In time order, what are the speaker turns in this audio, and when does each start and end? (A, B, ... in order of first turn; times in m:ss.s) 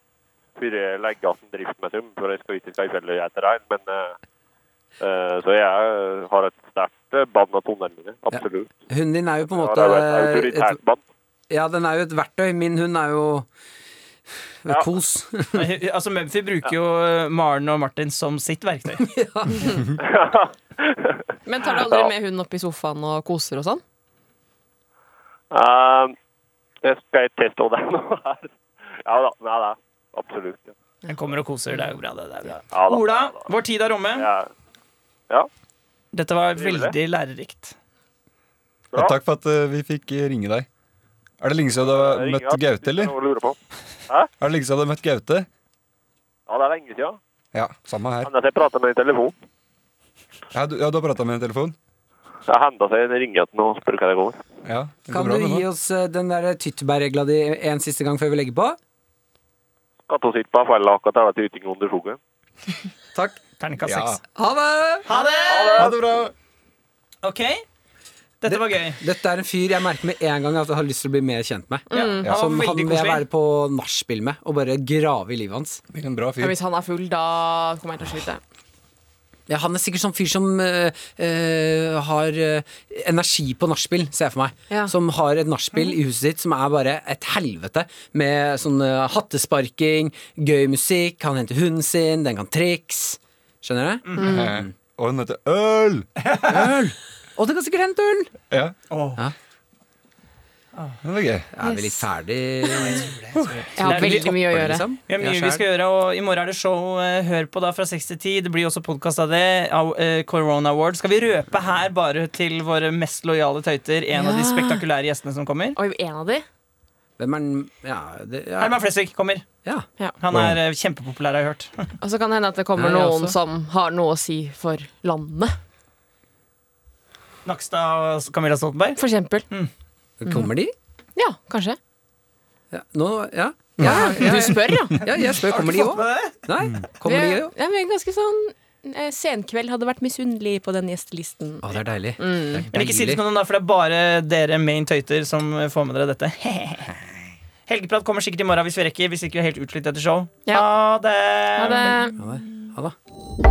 0:00.6-0:04.1 A
0:05.0-0:08.7 A
0:08.3-0:10.8 B
0:09.5-0:11.0 A
0:11.5-0:13.5 B
0:14.6-0:15.7 B
0:15.6-0:19.0 C
0:19.0-0:19.7 B
0:20.0-0:21.2 A
0:21.5-0:23.8 D
0:25.5-0:26.2 A
0:26.8-0:28.4 A
0:29.1-0:30.8 A
0:31.1-0:34.3 C
0:32.6-0:33.5 A
0:34.2-0:34.5 A
0:36.1-0:37.8 C
0:36.6-0:36.9 A
0:38.9-0:40.7 E
0:41.4-0:43.2 E
0:41.8-0:43.6 A
0:44.4-0:45.5 E
0:46.5-0:47.2 A
0:47.5-0:48.3 E
0:48.2-0:49.4 A
0:50.5-0:51.8 E
0:52.5-0:54.4 A
0:54.6-0:55.7 E
0:55.1-0:58.8 B
1:00.1-1:02.2 A
1:03.2-1:03.4 B
1:03.6-1:04.2 C
1:03.8-1:04.2 E
1:04.2-1:05.1 B
1:05.1-1:05.9 C
1:05.1-1:05.6 D
1:05.5-1:05.9 A
1:05.8-1:06.3 E
1:07.2-1:07.6 C
1:08.4-1:09.0 C
1:08.5-1:15.8 B
1:11.9-1:12.3 D
1:11.9-1:13.2 C
1:15.9-1:16.6 E
1:16.4-1:18.4 D
1:19.5-1:34.7 B
1:24.7-1:25.0 D
1:34.0-1:34.4 C
1:34.2-1:34.5 D
1:34.2-1:36.1 E
1:36.2-1:36.6 C
1:36.5-1:38.3 B
1:38.9-1:39.2 C
1:41.0-1:41.5 E
1:41.5-1:43.1 B
1:41.6-1:42.0 D
1:42.8-1:44.4 C
1:43.8-1:45.6 B
1:43.8-1:44.9 D
1:45.0-1:55.8 C
1:54.1-1:54.8 D
1:55.8-1:56.4 D
1:57.2-1:58.8 B
1:58.6-1:59.5 C
2:00.2-2:01.9 C
2:00.3-2:00.6 E
2:02.0-2:05.6 D
2:02.8-2:03.4 B
2:07.4-2:09.0 C
2:09.0-2:09.5 D
2:10.2-2:10.7 B
2:11.2-2:11.8 D
2:12.7-2:17.5 B
2:13.8-2:15.1 D
2:15.1-2:16.4 C
2:17.0-2:22.7 D
2:21.6-2:23.2 B
2:22.7-2:26.9 C
2:27.7-2:32.0 C
2:31.6-2:32.2 D
2:32.2-2:33.0 B